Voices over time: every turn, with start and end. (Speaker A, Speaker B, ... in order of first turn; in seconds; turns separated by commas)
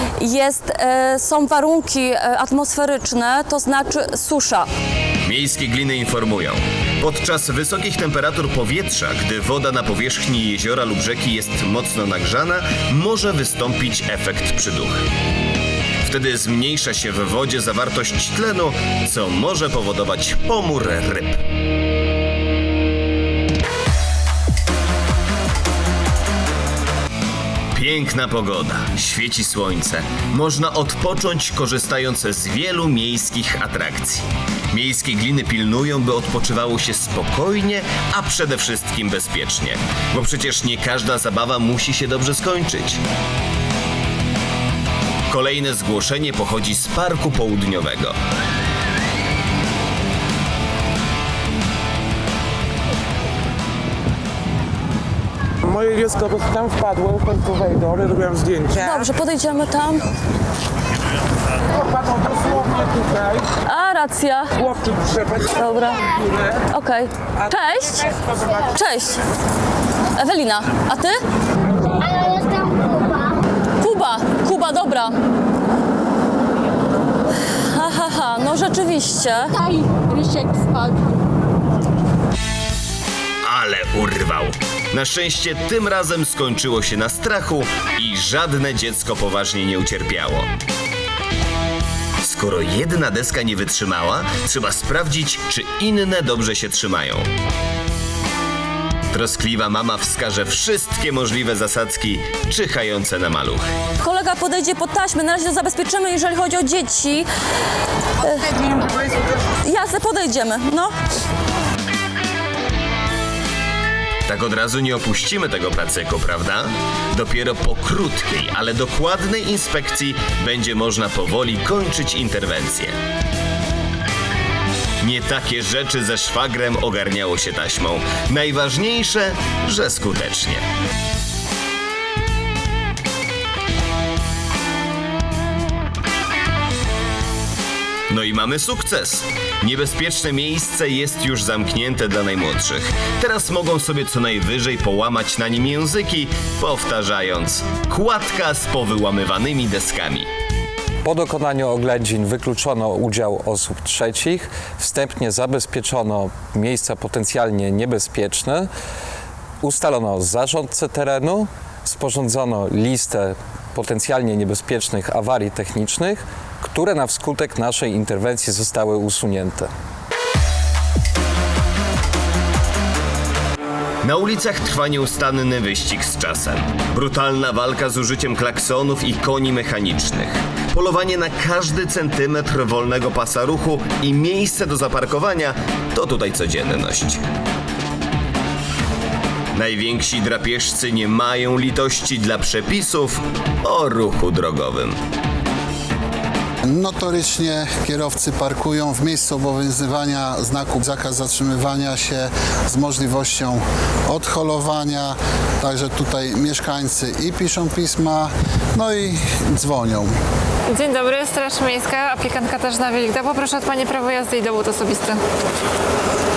Speaker A: 0.2-4.7, Speaker B: 5.2-15.1, Speaker B: 16.0-21.4, Speaker B: 27.7-43.0, Speaker B: 45.3-48.1, Speaker C: 55.7-58.8, Speaker A: 58.7-60.1, Speaker C: 62.0-63.4, Speaker A: 63.6-64.7, Speaker C: 64.7-65.3, Speaker A: 65.4-69.2, Speaker A: 70.1-71.2, Speaker A: 73.8-75.2, Speaker A: 77.4-79.5, Speaker B: 83.4-90.5, Speaker B: 92.2-97.3, Speaker B: 99.1-103.7, Speaker A: 104.0-107.3, Speaker A: 108.2-109.0, Speaker A: 109.6-110.9, Speaker B: 114.3-122.9, Speaker B: 125.0-130.6, Speaker B: 138.1-150.3, Speaker D: 151.0-158.7, Speaker D: 159.6-169.7, Speaker B: 174.0-187.2, Speaker B: 189.5-195.0, Speaker E: 196.7-210.1, Speaker F: 210.7-215.2